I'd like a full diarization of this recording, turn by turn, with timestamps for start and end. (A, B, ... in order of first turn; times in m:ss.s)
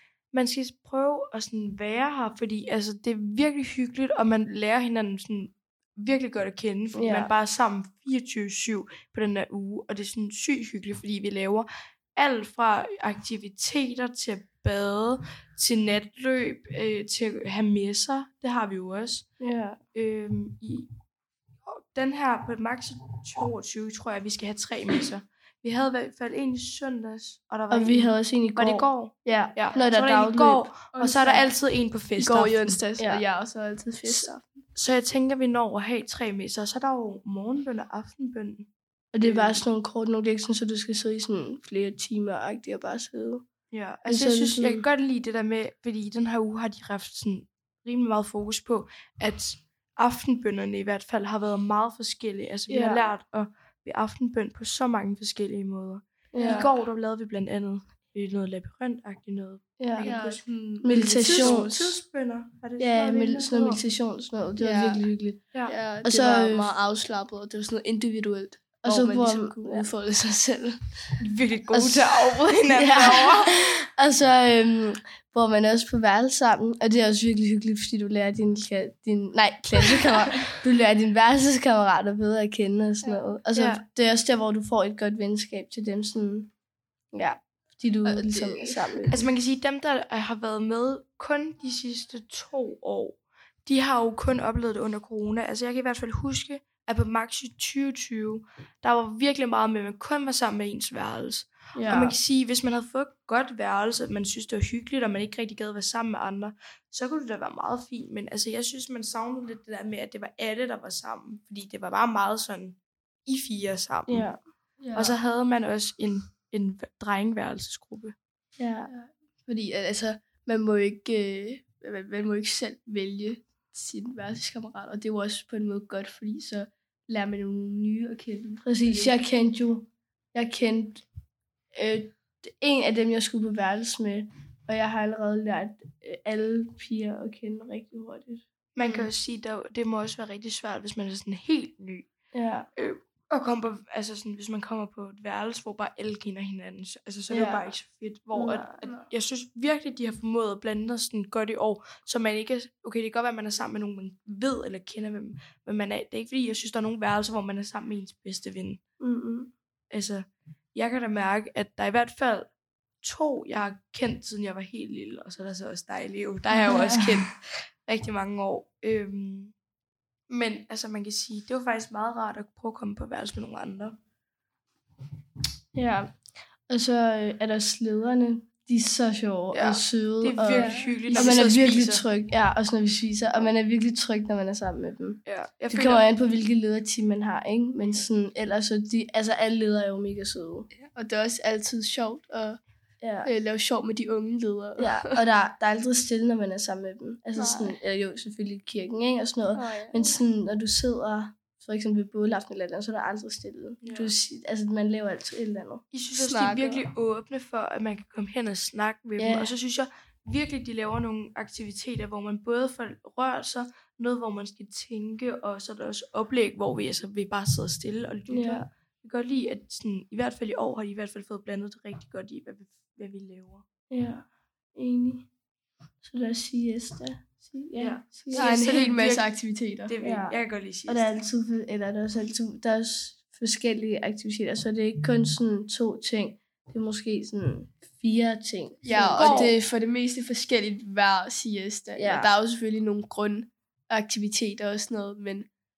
0:00.3-0:19.3 A
0:06.9-0:07.3 B
0:19.4-0:19.8 B
0:19.9-0:20.9 A
0:21.6-0:32.8 A
0:27.7-0:30.7 B
0:29.2-0:29.6 C
0:30.9-0:31.4 C
0:32.2-0:34.4 C
0:33.0-0:33.2 B
0:34.8-0:38.7 A
0:39.1-0:43.4 B
0:39.2-0:39.6 A
0:43.7-1:03.8 A
0:44.0-0:44.8 B
0:52.7-0:53.1 B
0:56.3-0:56.7 B
0:56.4-0:56.7 C
0:59.8-1:00.2 B
1:00.0-1:01.9 C
1:00.8-1:01.8 B
1:02.8-1:05.5 B
1:04.6-1:05.1 C
1:05.5-1:05.8 A
1:05.6-1:10.8 C
1:06.0-1:06.8 B
1:08.8-1:09.9 B
1:11.2-1:13.8 A
1:11.7-1:26.5 B
1:23.5-1:23.8 A
1:27.1-1:29.2 B
1:28.0-1:29.1 C
1:29.1-1:54.3 A
1:41.7-1:42.2 B
1:54.1-1:54.4 B
1:54.9-1:58.2 A
1:58.6-1:58.9 B
1:58.9-2:09.2 C
2:08.6-2:11.0 B
2:11.7-2:19.0 B
2:18.8-2:22.1 A
2:22.3-2:22.7 B
2:22.8-2:38.8 A
2:27.3-2:27.6 B
2:28.3-2:28.7 B
2:39.0-2:39.5 B
2:39.9-2:42.5 A
2:43.0-2:49.5 A
2:46.5-2:47.2 B
2:50.3-2:54.0 A
2:55.7-2:56.2 B
2:56.7-3:10.7 B
2:59.5-3:02.0 A
3:00.5-3:01.5 C
3:05.3-3:06.0 A
3:11.0-3:12.6 C
3:13.0-3:13.3 B
3:13.2-3:15.2 C
3:14.8-3:25.8 B
3:17.4-3:17.8 C
3:19.5-3:20.0 C
3:23.8-3:24.1 A
3:25.9-3:43.7 A
3:26.2-3:26.8 C
3:29.2-3:29.5 B
3:38.3-3:38.6 B
3:43.9-3:45.3 B
3:46.0-3:48.6 B
3:47.8-3:49.3 A
3:48.3-3:50.0 C
3:49.8-3:51.2 A
3:50.0-3:59.6 B
3:58.8-4:05.5 C
3:58.8-3:59.6 A
4:02.0-4:02.3 B